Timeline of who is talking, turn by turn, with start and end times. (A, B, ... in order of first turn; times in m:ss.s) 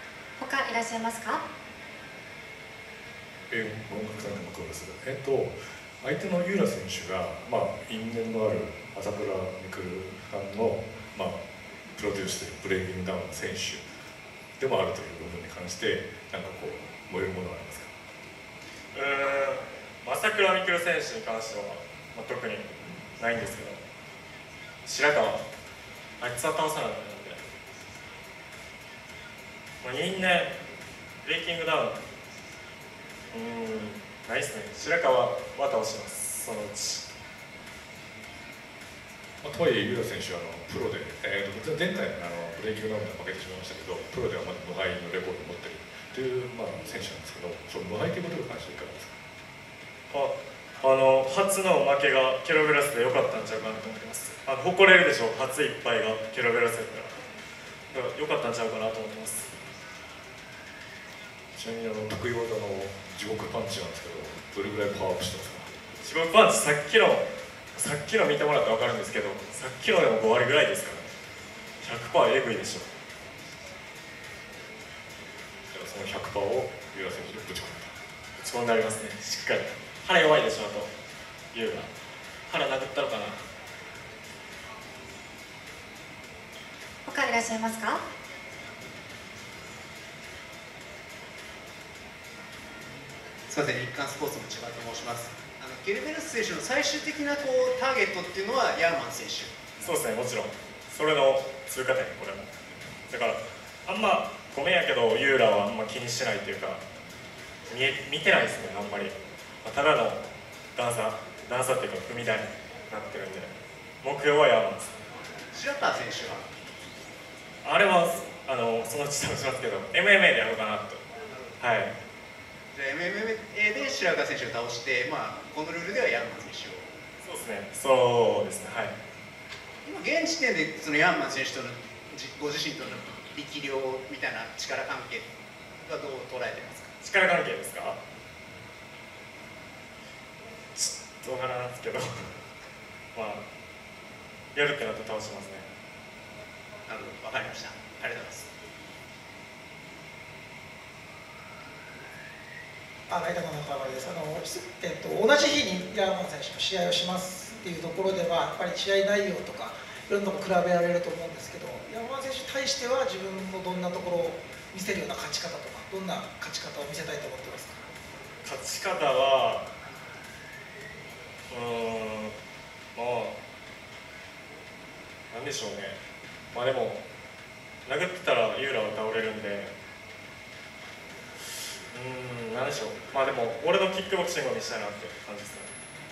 0:00.4-0:01.4 A
0:03.5-0:13.9 B
0:14.6-0:17.9 B
0:18.9-0:23.8 C
0:24.8-0:25.4 C
0:26.2-0:27.4 C
0:29.8-0:30.5 C
0:31.2-0:32.0 C
0:33.3-0:37.0 C
0:39.4-0:49.2 B
0:50.1-0:57.2 C
0:57.9-0:59.5 C
1:01.6-1:05.7 B
1:06.0-1:11.1 C
1:11.8-1:12.9 C
1:15.7-1:17.9 B
1:18.4-1:20.9 C
1:21.5-1:21.9 C
1:22.5-1:23.4 C
1:27.1-1:28.0 A
1:33.5-1:39.7 D
1:39.8-1:42.5 C
1:43.1-1:46.8 C
1:47.7-1:50.2 C
1:50.8-1:53.5 C
1:54.0-1:54.9 C
1:55.5-1:56.5 D
1:57.6-2:01.0 C
2:01.3-2:01.6 D
2:01.6-2:01.9 C
2:02.7-2:06.9 D
2:07.2-2:08.9 C
2:09.8-2:16.9 D
2:17.0-2:18.0 C
2:20.8-2:22.3 C
2:23.1-2:23.4 C
2:24.5-2:25.7 C
2:26.9-2:28.5 D
2:33.1-2:47.8 E
2:48.4-2:49.6 C
2:51.5-2:52.4 C
2:53.0-2:53.4 C
2:55.3-2:56.0 C
2:56.5-2:57.0 C
2:57.9-2:59.7 C
3:01.9-3:05.7 C